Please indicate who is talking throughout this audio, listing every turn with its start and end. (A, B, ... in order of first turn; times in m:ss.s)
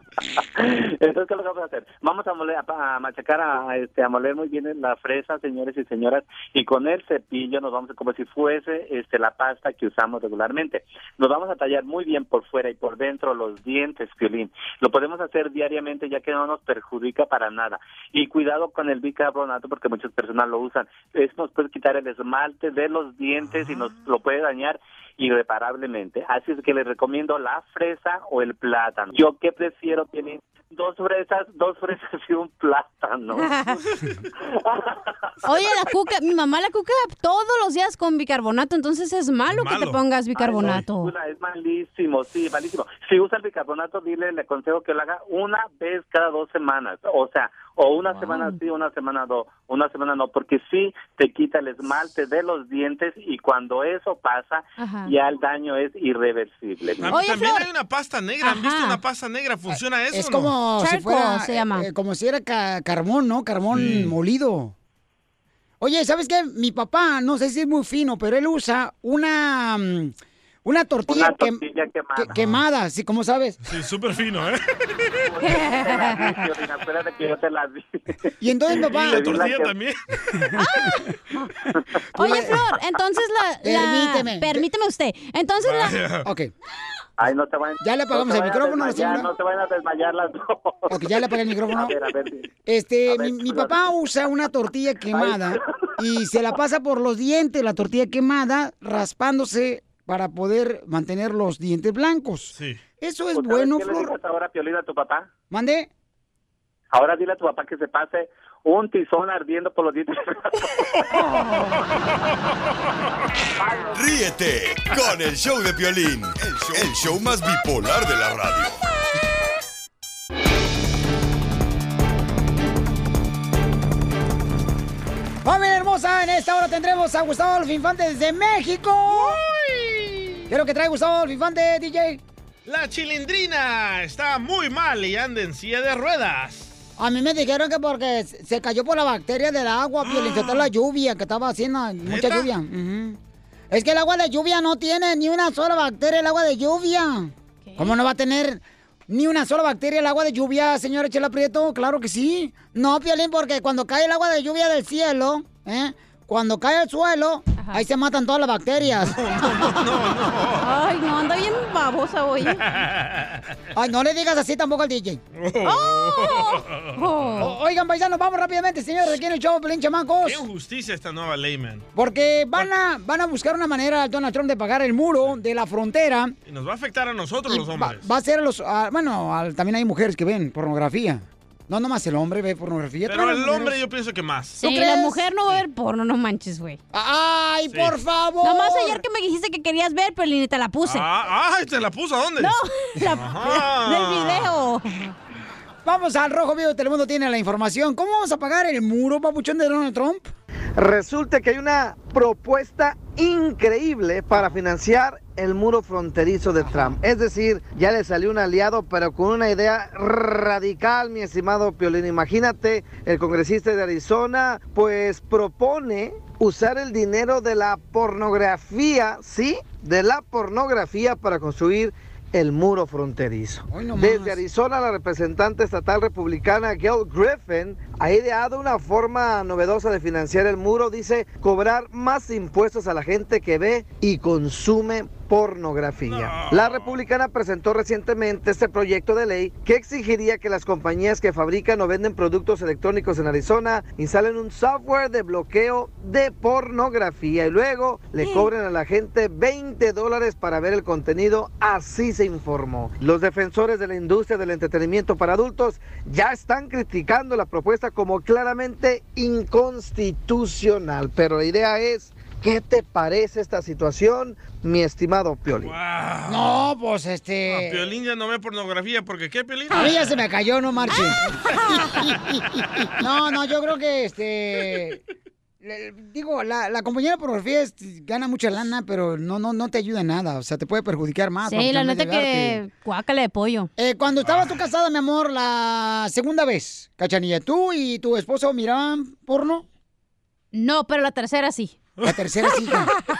0:00.4-0:33.5 A
0:33.4-0:33.8 B
0:34.6-0:35.0 A
0:35.4-0:41.1 B
0:39.5-0:40.0 C
0:40.4-0:57.1 A
0:48.2-0:48.6 B
0:54.8-0:55.1 B
0:57.0-1:00.5 C
0:57.1-0:57.7 B
0:58.4-0:59.0 B
0:59.7-1:04.7 D
1:00.8-1:01.9 B
1:03.7-1:04.1 C
1:05.8-1:10.1 D
1:10.6-1:11.6 D
1:11.1-1:12.5 A
1:12.1-1:13.6 D
1:13.6-1:14.6 C
1:15.3-1:18.0 A
1:15.4-1:16.4 B
1:18.4-1:19.4 D
1:18.8-1:19.8 A
1:18.9-1:20.0 C
1:20.6-1:21.1 B
1:22.2-1:26.0 B
1:22.2-1:22.6 D
1:23.6-1:24.7 D
1:25.6-1:26.2 C
1:26.2-1:26.5 D
1:27.2-1:32.5 A
1:27.8-1:29.3 D
1:30.9-1:32.0 D
1:32.6-1:44.1 D
1:33.0-1:33.8 A
1:35.1-1:35.6 A
1:43.3-1:45.3 A
1:45.5-1:45.9 D
1:46.9-1:50.5 A
1:53.9-1:58.8 E
2:05.4-2:09.4 D
2:09.1-2:10.5 C
2:10.5-2:12.2 D
2:12.6-2:16.7 C
2:17.0-2:23.2 D
2:20.0-2:20.6 C
2:22.0-2:22.5 C
2:23.7-2:39.6 D
2:27.6-2:27.9 B
2:37.6-2:37.8 B
2:39.1-2:40.7 C
2:40.6-2:42.6 B
2:42.6-2:43.4 C
2:43.7-2:45.2 D
2:45.3-2:47.4 C
2:45.6-2:47.5 B
2:47.4-2:50.4 D
2:50.2-2:51.8 C
2:51.9-2:56.4 D
2:56.4-2:58.1 C
2:57.5-3:03.8 D
3:03.0-3:04.6 C
3:04.6-3:06.8 B
3:04.6-3:05.2 D
3:06.9-3:09.0 D
3:07.7-3:08.0 C
3:08.4-3:11.0 B
3:10.8-3:12.5 C
3:12.4-3:15.1 B
3:13.1-3:14.5 C
3:15.8-3:20.3 D
3:20.8-4:25.7 F
3:26.6-3:26.9 D
3:43.7-3:44.4 D
3:56.0-3:57.0 C
4:08.2-4:08.5 B
4:25.6-4:26.7 C
4:26.2-4:27.9 D
4:27.5-4:29.9 C
4:29.7-4:35.0 D
4:30.9-4:31.8 B
4:35.6-4:42.6 D
4:41.4-4:43.7 B
4:43.8-4:49.6 D
4:44.2-4:44.5 C
4:50.5-4:51.8 B
4:52.0-4:52.9 D